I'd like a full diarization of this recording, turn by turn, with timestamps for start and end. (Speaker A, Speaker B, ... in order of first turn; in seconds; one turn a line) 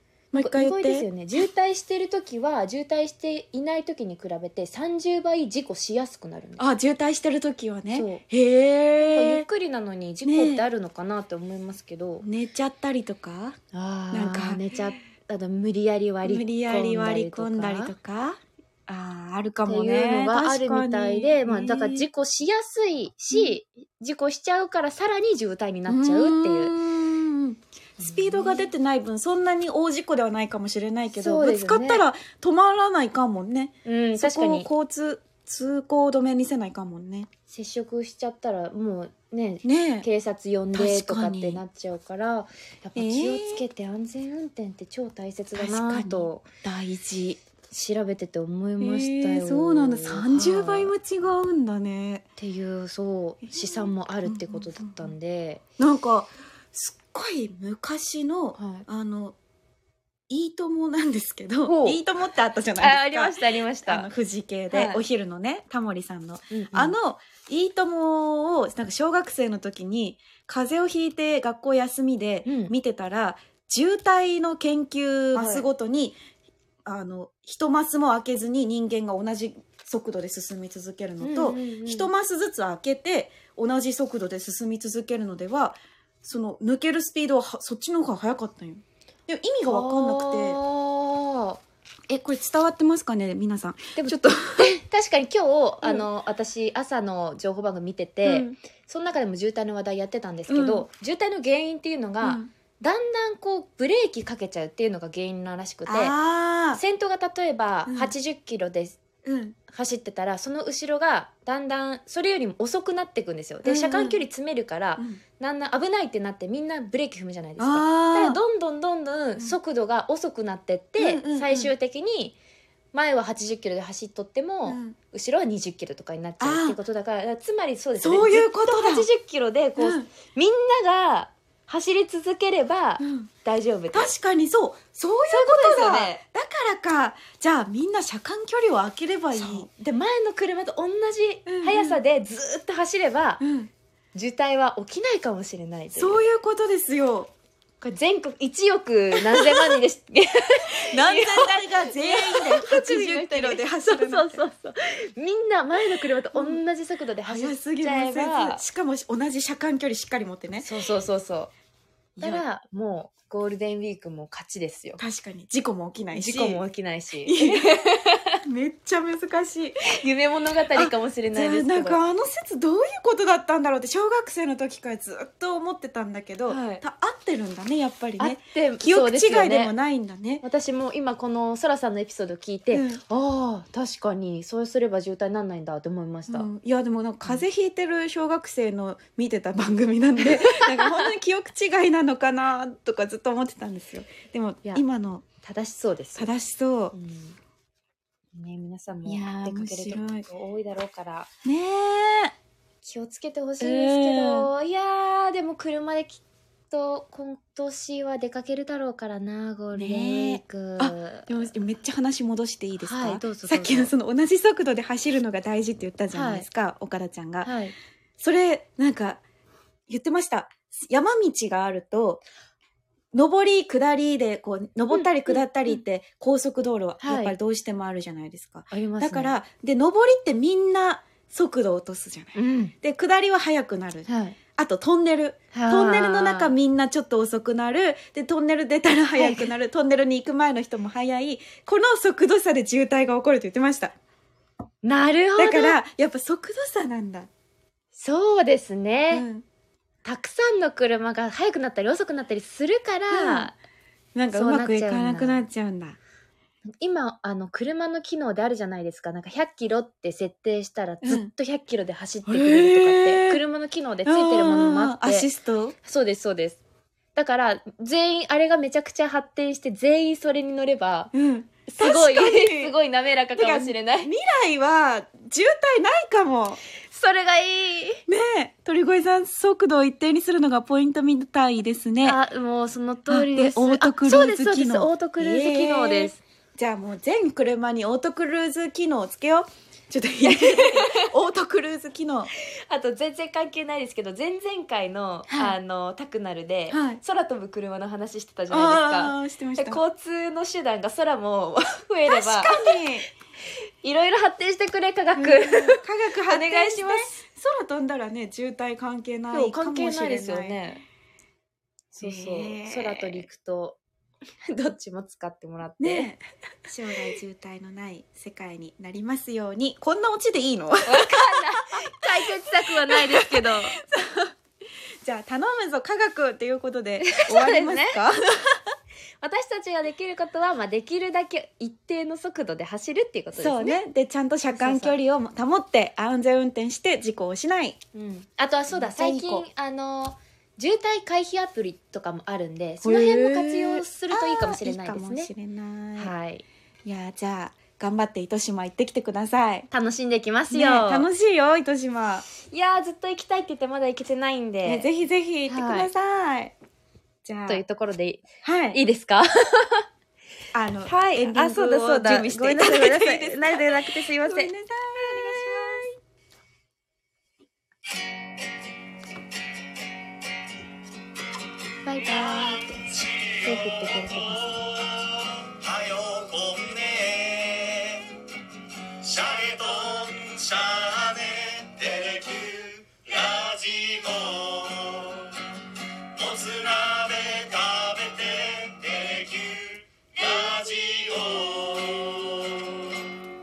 Speaker A: 0.3-1.1
Speaker B: 0.4-6.7
Speaker A: 6.6-9.4
Speaker B: 7.9-8.2
Speaker B: 9.1-12.2
Speaker A: 10.2-10.6
Speaker A: 12.2-13.6
Speaker B: 13.7-17.9
Speaker A: 14.1-14.6
Speaker A: 16.2-22.0
Speaker B: 19.6-26.7
Speaker A: 25.9-37.3
Speaker B: 28.0-28.7
Speaker B: 31.1-32.0
Speaker B: 33.8-34.7
Speaker B: 37.5-46.5
Speaker A: 39.6-40.1
Speaker A: 40.7-41.6
Speaker A: 42.9-43.6
Speaker A: 45.5-47.4
Speaker B: 47.7-50.9
Speaker A: 48.8-52.2
Speaker B: 52.4-55.6
Speaker A: 53.4-55.1
Speaker A: 55.8-59.4
Speaker B: 58.5-58.9
Speaker A: 60.3-76.2
Speaker B: 61.6-62.0
Speaker B: 62.8-64.1
Speaker B: 64.7-65.0
Speaker B: 66.5-67.0
Speaker B: 72.5-72.7
Speaker B: 75.3-75.7
Speaker A: 76.8-90.6
Speaker B: 81.2-82.1
Speaker B: 89.6-91.6
Speaker A: 92.1-94.7
Speaker B: 94.0-106.1
Speaker A: 98.2-98.6
Speaker A: 100.5-100.9
Speaker A: 102.2-102.5
Speaker A: 105.8-106.8
Speaker B: 106.7-109.0
Speaker A: 107.9-108.1
Speaker A: 109.2-109.5
Speaker B: 109.7-122.3
Speaker A: 113.6-114.2
Speaker A: 117.6-118.4
Speaker A: 121.0-121.7
Speaker B: 122.9-134.1
Speaker A: 124.7-125.0
Speaker A: 126.4-126.8
Speaker A: 128.0-129.1
Speaker A: 129.8-130.1
Speaker A: 133.0-133.3
Speaker A: 133.9-139.7
Speaker B: 135.3-136.2
Speaker B: 139.3-143.4
Speaker A: 141.5-142.0
Speaker A: 143.4-143.7
Speaker B: 144.1-146.2
Speaker A: 145.9-147.3
Speaker B: 147.8-158.6
Speaker A: 149.3-149.7
Speaker A: 150.9-154.4
Speaker A: 156.3-156.6
Speaker A: 157.2-160.7
Speaker B: 160.6-161.5
Speaker A: 162.2-162.4
Speaker B: 162.2-165.0
Speaker A: 165.0-166.6
Speaker B: 166.1-168.4
Speaker A: 167.2-167.7
Speaker A: 168.4-169.9
Speaker B: 169.8-172.0
Speaker A: 170.7-180.4
Speaker B: 176.5-176.8
Speaker B: 178.2-179.7
Speaker B: 180.4-186.5
Speaker A: 182.7-183.0
Speaker A: 186.3-195.2
Speaker B: 190.4-191.1
Speaker B: 195.4-196.3
Speaker A: 196.2-196.9
Speaker B: 196.9-197.4
Speaker B: 198.3-201.3
Speaker A: 199.1-200.2
Speaker A: 201.4-202.3
Speaker B: 202.8-211.3
Speaker A: 203.6-204.5
Speaker A: 209.7-217.5
Speaker B: 212.8-213.9
Speaker B: 216.1-216.4
Speaker B: 217.4-217.7
Speaker A: 218.2-219.2
Speaker A: 219.9-222.2
Speaker A: 223.1-243.9
Speaker B: 224.9-225.8
Speaker B: 227.0-227.3
Speaker B: 228.7-229.4
Speaker B: 232.3-232.7
Speaker B: 234.1-234.4
Speaker B: 235.5-236.5
Speaker B: 239.2-239.5
Speaker B: 244.8-245.8
Speaker A: 245.4-247.3
Speaker B: 247.9-249.2
Speaker A: 249.1-249.4
Speaker B: 250.0-253.5
Speaker A: 253.1-253.5
Speaker A: 254.1-256.0
Speaker B: 254.3-255.4
Speaker B: 256.8-265.3
Speaker A: 261.0-261.3
Speaker A: 262.2-263.4
Speaker A: 264.1-265.8
Speaker B: 265.8-266.6
Speaker B: 267.1-271.1
Speaker A: 271.1-272.7
Speaker B: 271.7-274.1
Speaker A: 273.4-276.6
Speaker B: 276.9-278.0
Speaker A: 278.1-282.2
Speaker B: 282.0-286.2
Speaker A: 283.1-292.3
Speaker B: 290.2-291.1
Speaker B: 292.7-302.6
Speaker A: 295.3-295.5
Speaker A: 296.7-297.0
Speaker A: 298.5-299.8
Speaker A: 302.1-303.1
Speaker B: 303.8-307.1
Speaker A: 305.1-310.6
Speaker B: 309.3-310.8
Speaker B: 311.9-313.8
Speaker A: 312.0-313.3
Speaker B: 314.5-316.1
Speaker A: 315.8-322.2
Speaker B: 320.9-323.7
Speaker A: 322.9-324.3
Speaker A: 325.0-328.6
Speaker B: 327.0-328.0
Speaker B: 329.2-333.8
Speaker A: 333.4-337.8
Speaker B: 334.5-334.9
Speaker B: 337.9-345.3
Speaker A: 338.7-339.4
Speaker A: 342.8-346.1
Speaker B: 346.0-346.4
Speaker A: 346.8-349.7
Speaker B: 349.7-351.1
Speaker A: 350.5-352.2
Speaker B: 352.4-354.9
Speaker A: 354.6-356.5
Speaker B: 355.5-355.9
Speaker A: 357.2-357.6
Speaker B: 357.5-359.9
Speaker A: 358.4-358.8
Speaker A: 360.5-365.9
Speaker B: 360.9-364.5
Speaker B: 371.8-374.8
Speaker C: 375.5-378.1
Speaker C: 379.0-385.2
Speaker C: 386.1-391.8